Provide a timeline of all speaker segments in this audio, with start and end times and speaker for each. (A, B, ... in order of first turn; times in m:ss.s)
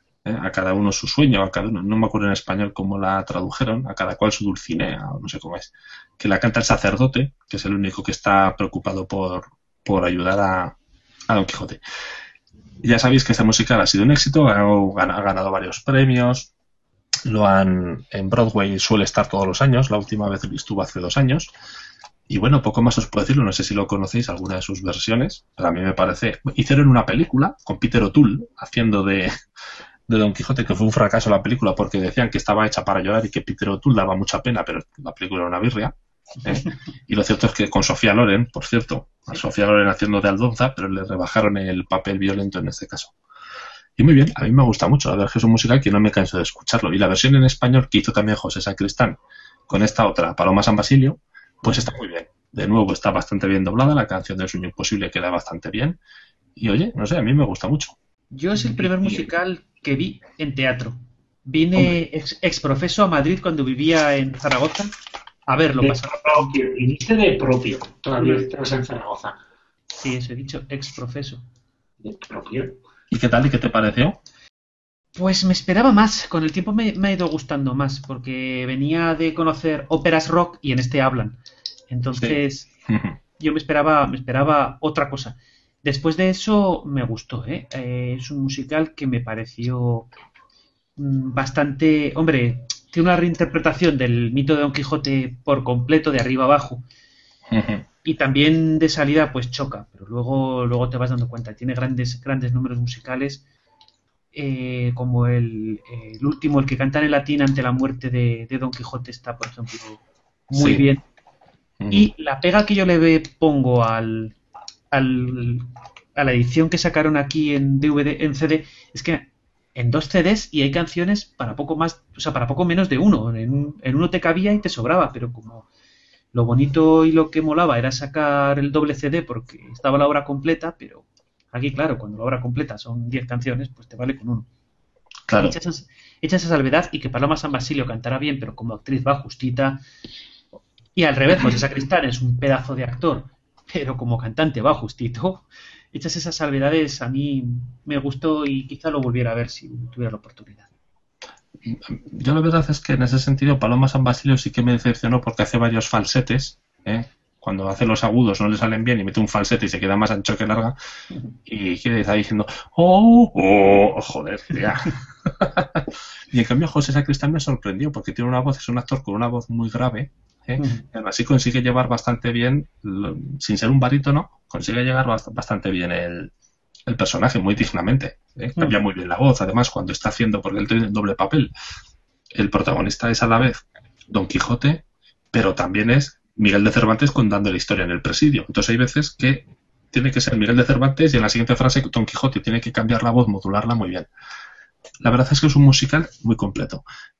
0:00.2-0:10.8 A
0:11.3-0:11.8 A
0:12.8-0:16.5 A
0:17.3-0:21.5 A
0:22.3-0:29.3 A
0:30.1-0:35.9 A
0:36.4-0:43.1 A
0:44.0-0:56.0 A
0:56.6-0:58.0 A
0:58.3-1:04.9 B
0:58.6-0:59.3 A
1:05.5-1:06.5 B
1:05.8-1:09.4 C
1:08.2-1:08.4 B
1:10.0-1:11.4 B
1:12.0-1:12.8 C
1:13.1-1:14.2 A
1:15.2-1:21.4 B
1:21.9-1:22.7 B
1:22.1-1:23.2 A
1:23.4-1:30.1 B
1:31.0-1:36.8 B
1:37.5-1:37.8 A
1:38.0-1:43.4 B
1:44.3-1:51.0 B
1:50.5-1:50.9 A
1:51.8-1:52.1 A
1:51.9-1:54.4 B
1:54.9-2:05.7 B
2:06.3-2:14.5 B
2:15.3-2:15.6 A
2:15.4-2:19.8 B
2:21.0-2:30.7 B
2:31.6-2:40.8 A
2:41.5-2:56.3 A
2:50.6-2:50.8 B
2:56.9-3:01.5 A
3:02.3-3:14.1 A
3:15.0-3:16.8 A